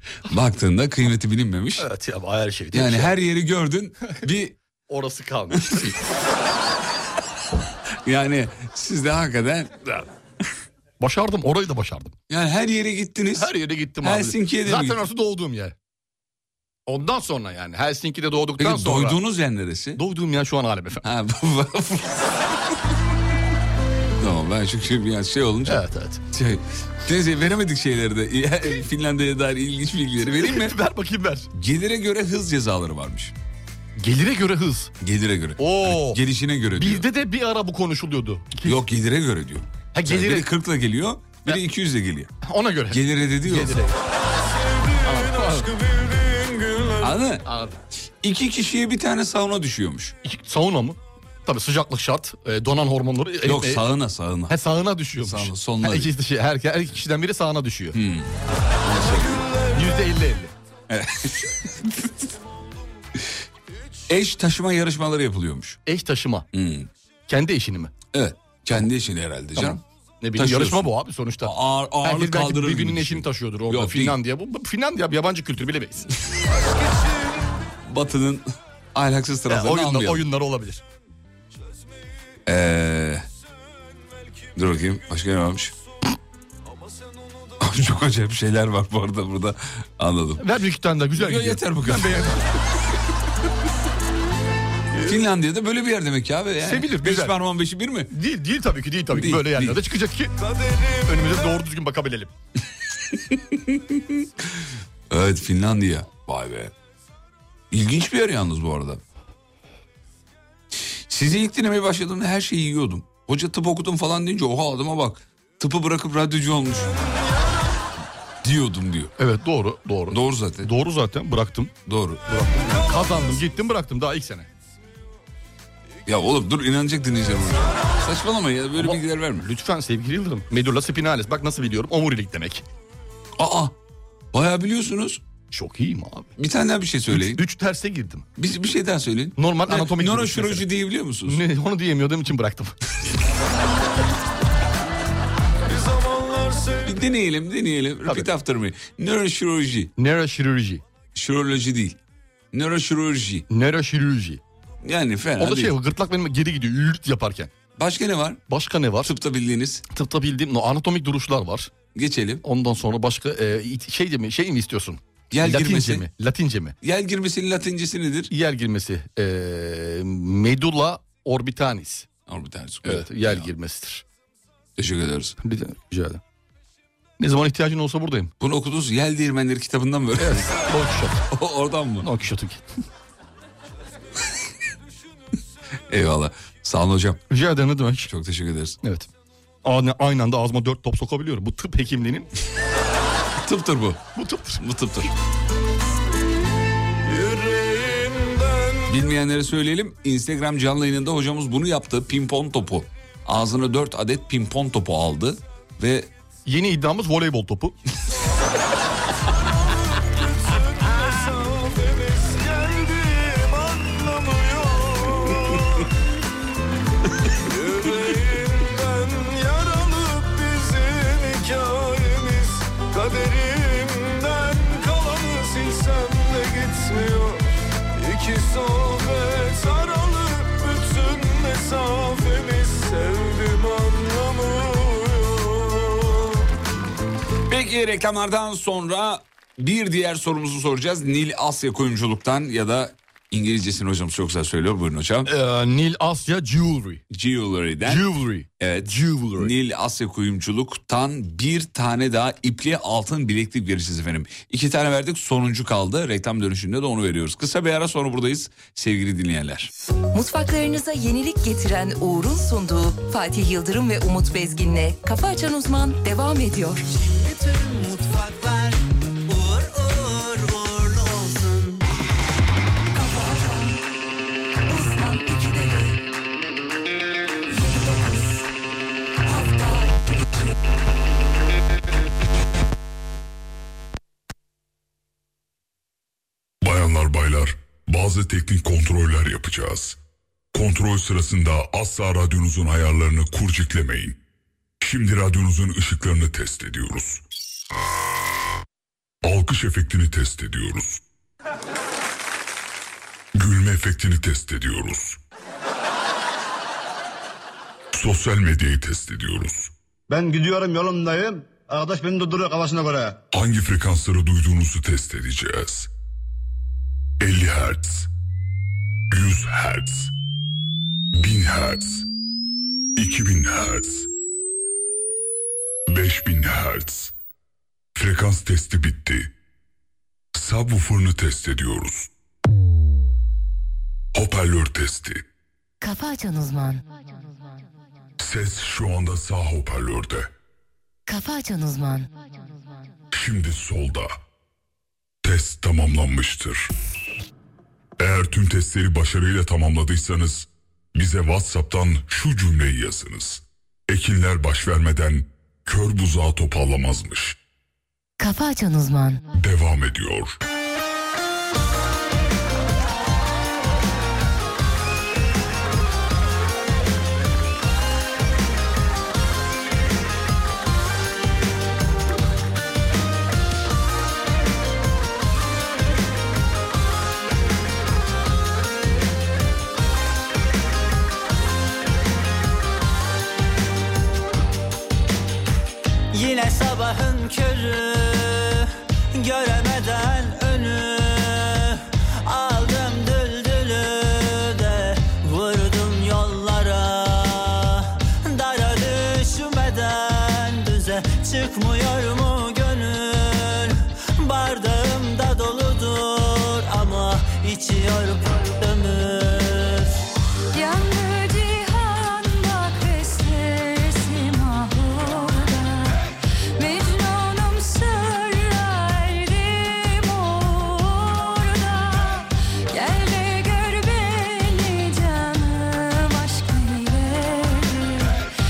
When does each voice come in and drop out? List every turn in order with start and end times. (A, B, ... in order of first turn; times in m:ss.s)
0:00.3-0:01.9 A
0:01.8-0:03.1 B
0:02.7-0:04.6 A
0:04.9-0:06.0 B
0:08.0-0:10.1 A
0:11.0-0:12.2 B
0:12.3-0:15.0 A
0:13.4-0:15.8 B
0:16.9-0:19.2 B
0:18.6-0:20.0 A
0:20.0-0:21.0 B
0:21.0-0:22.4 A
0:24.2-0:30.8 A
0:25.7-0:26.2 B
0:30.3-0:31.5 B
0:31.5-0:33.3 A
0:34.0-0:34.9 B
0:35.0-0:37.1 A
0:35.6-0:36.2 B
0:36.7-0:38.8 B
0:38.6-0:42.3 A
0:39.9-0:40.5 B
0:42.4-0:44.0 B
0:42.9-0:43.8 A
0:44.0-0:47.1 C
0:45.0-0:45.7 B
0:47.0-0:47.4 A
0:47.4-0:47.8 B
0:48.2-0:50.2 A
0:50.2-0:53.8 B
0:53.4-0:54.6 A
0:54.5-0:58.0 B
0:55.2-0:56.1 A
0:57.9-0:59.5 A
0:59.7-1:00.5 B
1:00.9-1:02.2 A
1:04.1-1:05.8 A
1:05.9-1:06.5 B
1:06.5-1:06.9 A
1:07.3-1:07.9 B
1:08.1-1:09.8 A
1:09.6-1:16.1 B
1:10.4-1:10.9 A
1:11.4-1:14.2 A
1:16.7-1:17.3 C
1:17.8-1:20.3 A
1:19.5-1:20.8 B
1:22.5-1:23.2 A
1:24.6-1:25.7 A
1:27.6-1:30.5 A
1:30.4-1:32.5 B
1:31.2-1:32.4 A
1:35.0-1:38.1 A
1:36.6-1:37.3 B
1:38.1-1:40.3 B
1:39.1-1:39.8 A
1:40.5-1:41.1 C
1:41.0-1:42.3 B
1:43.1-1:44.2 A
1:45.1-1:46.7 A
1:47.7-1:49.0 A
1:51.1-1:57.1 A
1:58.4-1:59.2 A
1:59.2-2:01.7 B
2:00.1-2:00.7 A
2:01.9-2:02.2 A
2:02.3-2:04.5 B
2:06.1-2:09.5 A
2:08.8-2:12.6 B
2:13.4-2:13.8 A
2:14.3-2:15.2 A
2:15.5-2:16.3 B
2:16.4-2:17.4 A
2:17.1-2:18.3 B
2:18.4-2:21.4 A
2:19.4-2:20.7 B
2:21.2-2:22.8 B
2:25.7-2:26.9 C
2:26.8-2:29.9 A
2:30.0-2:30.8 B
2:31.2-2:32.0 A
2:32.5-2:33.5 A
2:33.5-2:34.4 B
2:34.8-2:35.8 A
2:35.4-2:37.5 B
2:37.8-2:38.4 A
2:38.5-2:39.1 B
2:39.0-2:39.8 A
2:39.9-2:41.7 B
2:42.0-2:42.4 A
2:42.4-2:46.8 B
2:45.3-2:46.1 A
2:46.8-2:48.3 A
2:48.3-2:52.1 B
2:52.3-2:53.5 A
2:52.8-2:54.0 B
2:54.8-2:55.4 A
2:55.4-2:56.2 B
2:57.2-2:58.3 B
2:58.4-3:00.6 A
3:00.2-3:01.2 B
3:01.3-3:02.1 A
3:02.0-3:02.6 B
3:05.9-3:07.2 A
3:07.3-3:08.1 B
3:08.0-3:08.8 A
3:08.8-3:09.1 B
3:09.6-3:12.3 B
3:13.4-3:14.0 A
3:14.2-3:14.6 B
3:14.6-3:15.1 A
3:17.0-3:18.9 C
3:18.9-3:26.1 A
3:26.5-3:27.8 B
3:29.5-3:35.9 C
3:37.4-3:47.4 C
3:48.0-3:56.4 C
3:57.5-4:05.3 A
4:05.3-4:07.0 B
4:07.1-4:19.7 A
4:07.8-4:09.5 B
4:20.1-4:26.8 D
4:46.6-4:50.0 E
4:50.5-4:54.2 E
4:54.8-4:57.2 E
4:59.2-5:01.0 E
5:03.4-5:05.2 E
5:07.9-5:09.7 E
5:10.1-5:13.2 F
5:13.3-5:15.9 E
5:17.2-5:18.1 E
5:19.1-5:20.1 E
5:21.1-5:22.0 E
5:23.0-5:24.1 E
5:25.9-5:27.1 E
5:28.0-5:29.3 E
5:30.4-5:32.1 E
5:34.2-5:35.2 E
5:38.2-5:40.3 E
5:43.1-5:44.1 E
5:45.2-5:46.7 E
5:48.0-5:57.4 E
5:59.3-6:00.4 E
6:26.1-6:50.0 G
6:50.5-7:08.2 H